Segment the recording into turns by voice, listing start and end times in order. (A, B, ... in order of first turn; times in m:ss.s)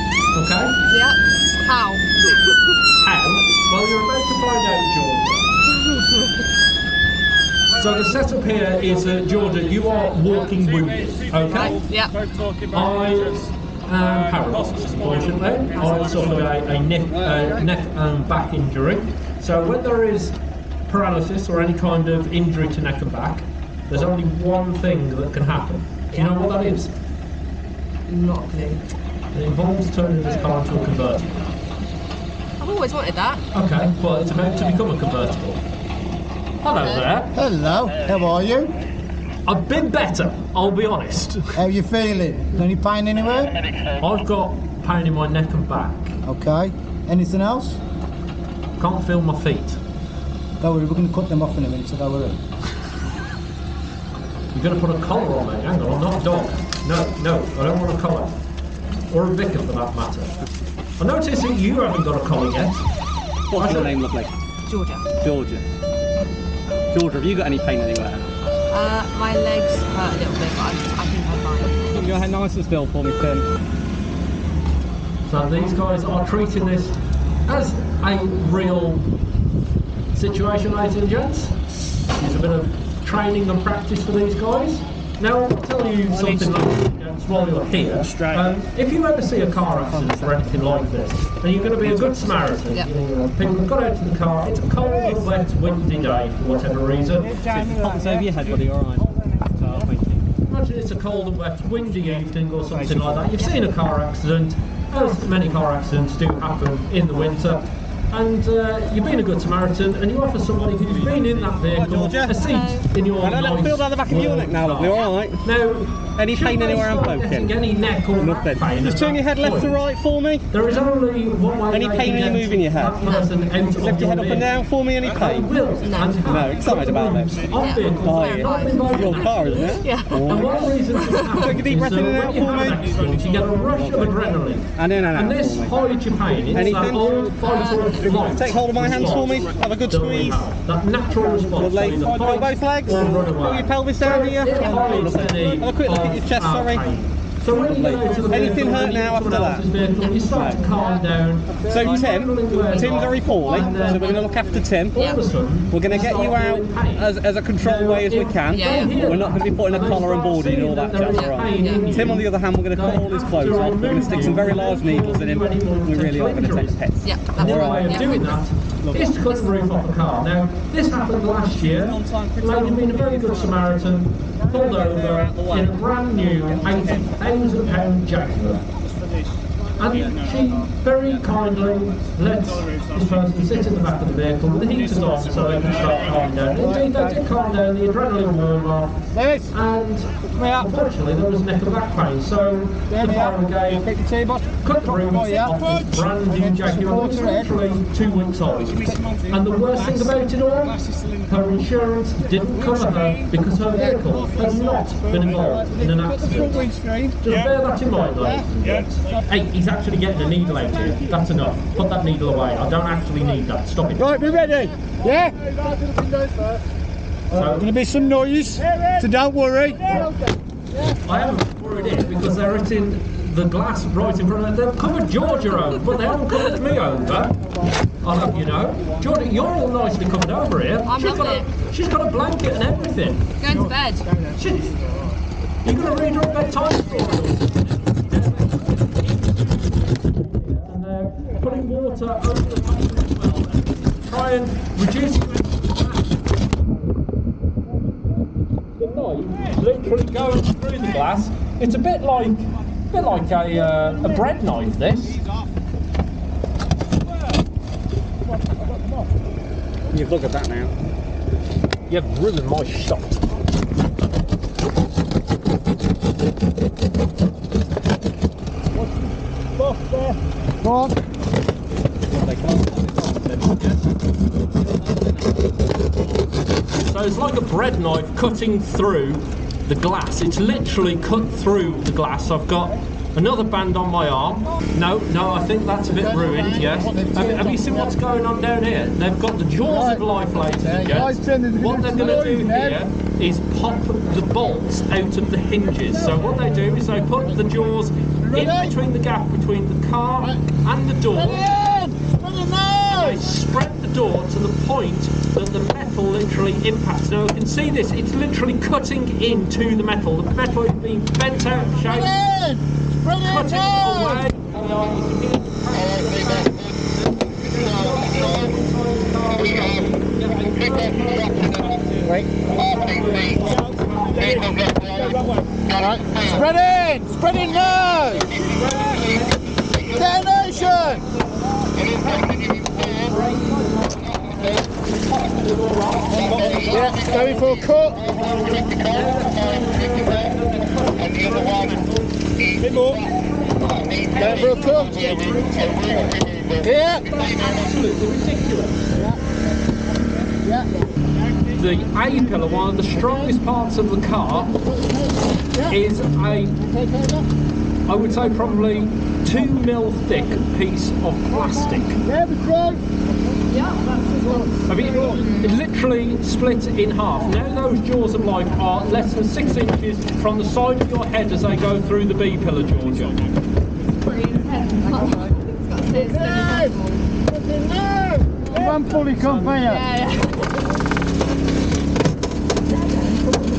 0:00.3-0:00.8 A
0:00.9-0:02.1 B
0:03.0-0:05.5 A
0:07.8-0:11.8 A
0:11.5-0:12.1 B
0:12.6-0:20.4 A
0:20.9-0:26.9 A
0:26.1-0:26.5 B
0:28.1-0:28.9 B
0:29.3-0:31.4 A
0:32.6-0:33.4 B
0:33.5-0:35.6 A
0:36.6-0:37.3 A
0:36.8-0:37.1 B
0:37.3-0:38.7 C
0:39.5-0:41.5 A
0:41.6-0:43.6 C
0:44.0-0:46.1 A
0:46.2-0:47.8 C
0:48.8-0:49.8 A
0:50.6-0:52.4 C
0:54.5-0:58.4 A
0:59.1-1:00.3 A
1:01.0-1:02.8 A
1:03.5-1:04.3 D
1:03.5-1:04.0 A
1:04.7-1:05.1 B
1:05.2-1:05.6 D
1:06.9-1:08.3 D
1:08.7-1:11.9 B
1:11.9-1:13.5 D
1:15.3-1:17.0 A
1:17.5-1:19.0 A
1:20.1-1:21.6 A
1:22.1-1:37.4 A
1:37.3-1:37.8 C
1:37.4-1:40.2 D
1:40.5-1:59.8 A
1:51.0-1:52.4 D
1:52.4-1:52.9 B
1:53.2-1:55.4 D
1:56.2-1:57.6 D
1:58.2-2:00.5 D
2:00.5-2:04.5 A
2:01.7-2:03.0 D
2:03.0-2:03.3 B
2:03.7-2:05.6 D
2:05.1-2:34.3 A
2:05.8-2:06.2 B
2:06.2-2:10.7 D
2:07.5-2:10.3 B
2:10.9-2:11.5 B
2:11.4-2:13.0 D
2:13.7-2:14.2 D
2:14.8-2:15.9 D
2:16.5-2:17.3 D
2:17.4-2:18.0 B
2:18.0-2:20.5 D
2:21.4-2:26.9 D
2:27.4-2:29.7 D
2:29.9-2:30.4 B
2:30.3-2:30.7 D
2:31.6-2:35.0 D
2:34.9-2:35.3 B
2:34.9-2:37.1 A
2:35.7-2:48.2 D
2:37.6-2:58.6 A
2:38.5-2:39.0 B
2:41.2-2:41.9 B
2:47.0-2:48.4 B
2:48.8-2:49.1 D
2:49.2-2:49.5 B
2:51.6-2:53.3 D
2:54.5-2:55.8 D
2:56.3-2:57.1 D
2:59.8-3:13.9 A
3:13.0-3:14.6 D
3:14.6-3:26.7 A
3:16.6-3:17.4 C
3:26.6-3:27.1 C
3:27.2-3:34.2 A
3:34.0-3:36.0 C
3:37.3-3:40.1 C
3:37.3-3:37.7 A
3:41.0-3:47.4 A
3:48.0-3:53.3 A
3:50.9-3:51.5 B
3:53.4-3:54.1 B
3:54.2-3:54.8 A
3:55.6-3:59.8 A
4:00.5-4:06.0 A
4:08.8-4:15.2 A
4:19.9-4:20.7 D
4:21.9-4:23.2 A
4:30.6-4:31.0 C
4:32.1-4:33.8 D
4:34.5-4:35.4 D
4:36.8-5:01.6 A
4:45.9-4:47.9 C
4:49.7-4:50.0 C
4:50.6-4:52.8 C
4:58.3-4:58.7 C
5:01.2-5:03.2 C
5:02.9-5:12.2 A
5:11.8-5:14.2 C
5:13.2-5:25.4 A
5:22.0-5:22.3 C
5:25.8-5:28.3 C
5:28.1-5:29.5 A
5:29.9-5:31.1 C
5:32.0-5:42.1 A
5:36.6-5:38.1 C
5:42.7-5:43.0 C
5:42.8-5:46.4 A
5:44.1-5:45.0 C
5:46.6-5:47.1 C
5:47.0-5:48.8 A
5:50.4-5:50.8 C
5:51.6-5:54.6 A
5:54.6-5:55.7 C
5:55.7-5:56.6 A
5:56.7-5:57.2 C
5:57.9-6:02.0 A
6:02.1-6:02.8 C
6:03.5-6:05.4 B
6:04.7-6:13.2 A
6:13.9-6:17.0 B
6:17.5-6:19.8 C
6:19.2-6:19.6 A
6:19.6-6:20.4 B